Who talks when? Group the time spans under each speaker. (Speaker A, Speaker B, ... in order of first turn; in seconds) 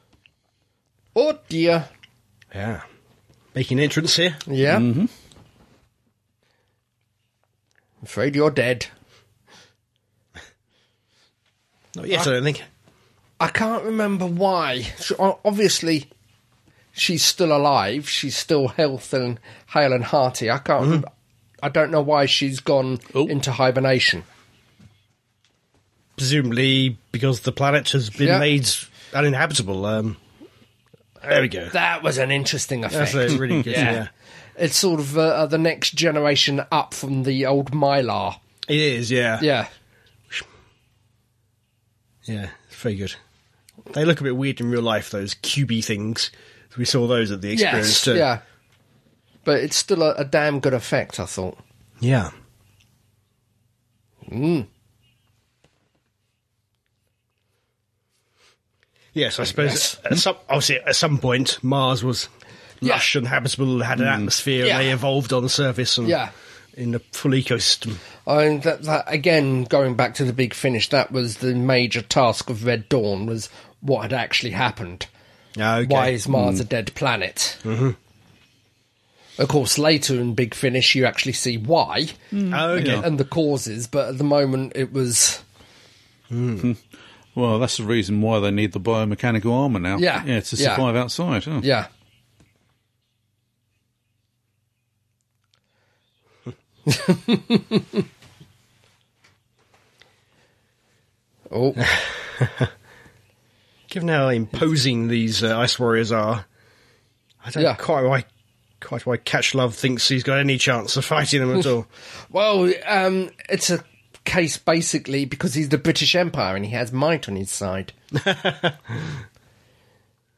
Speaker A: 1.1-1.9, 4.5-4.9, 8.0-8.9, 13.4-16.1, 16.9-21.1, 21.6-24.3, 28.2-28.5, 31.7-38.4, 39.4-39.7, 47.5-48.4, 49.5-51.6, 54.3-54.7, 59.5-60.0, 64.6-65.0, 66.0-66.3, 68.3-75.1, 75.8-77.6, 79.4-82.2, 82.7-85.4, 90.0-90.8, 91.6-91.9, 96.9-98.0, 101.5-101.9, 112.3-117.9
Speaker B: 2.5-2.8, 3.5-4.4, 11.9-12.7, 26.2-30.2, 31.2-31.7, 32.9-34.1, 38.7-39.5, 42.3-43.2, 43.9-48.3, 52.0-52.3, 59.1-62.3, 62.8-66.2, 66.8-68.0, 75.6-76.2, 77.6-78.0, 82.5-83.1, 86.3-86.7, 101.8-102.7, 103.9-106.5, 107.4-108.3, 108.8-111.9, 118.2-119.2
Speaker C: 4.6-5.1, 64.0-64.3, 76.3-76.6, 82.3-83.1, 87.3-91.7